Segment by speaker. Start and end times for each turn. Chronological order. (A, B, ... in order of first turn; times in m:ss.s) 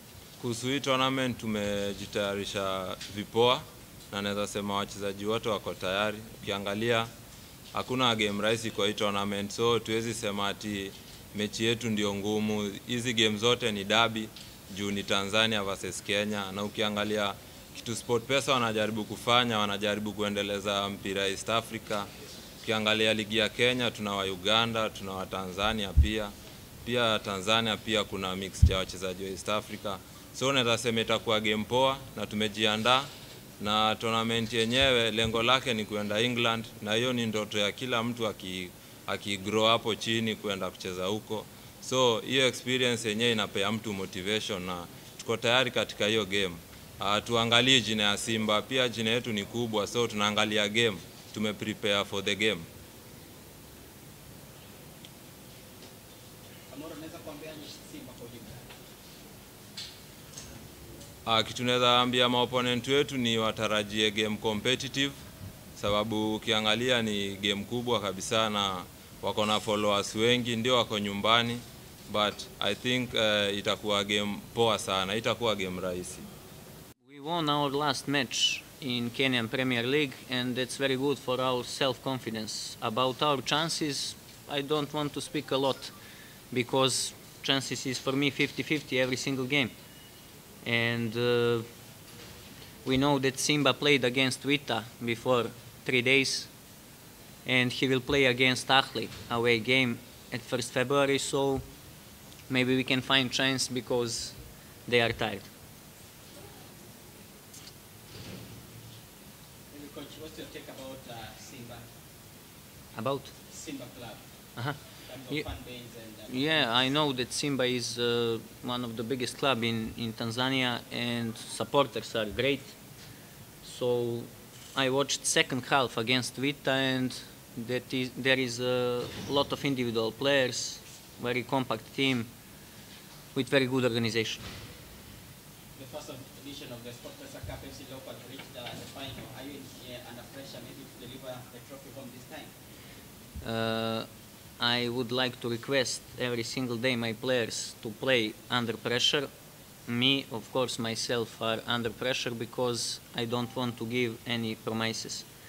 0:00.4-0:07.1 A
0:07.7-0:22.1 A
0:22.6-0:26.3 A
0:26.8-0:33.1 A
0:33.6-0:52.6 A
0:56.7-0:58.7 B
1:01.3-1:05.2 A
1:05.8-1:16.3 A
1:17.0-1:25.9 C
1:26.5-1:29.7 C
1:30.6-1:31.7 C
1:32.8-1:36.5 C
1:37.4-1:41.6 C
1:42.5-1:45.5 C
1:49.7-1:51.8 B
1:52.9-1:53.3 C
1:53.5-1:54.2 B
1:54.6-1:55.4 C
1:55.0-1:56.7 B
1:56.3-2:02.8 C
2:03.6-2:12.3 C
2:13.3-2:14.4 C
2:15.8-2:22.5 B
2:23.4-2:24.1 C
2:24.6-2:29.3 C
2:29.9-2:35.3 C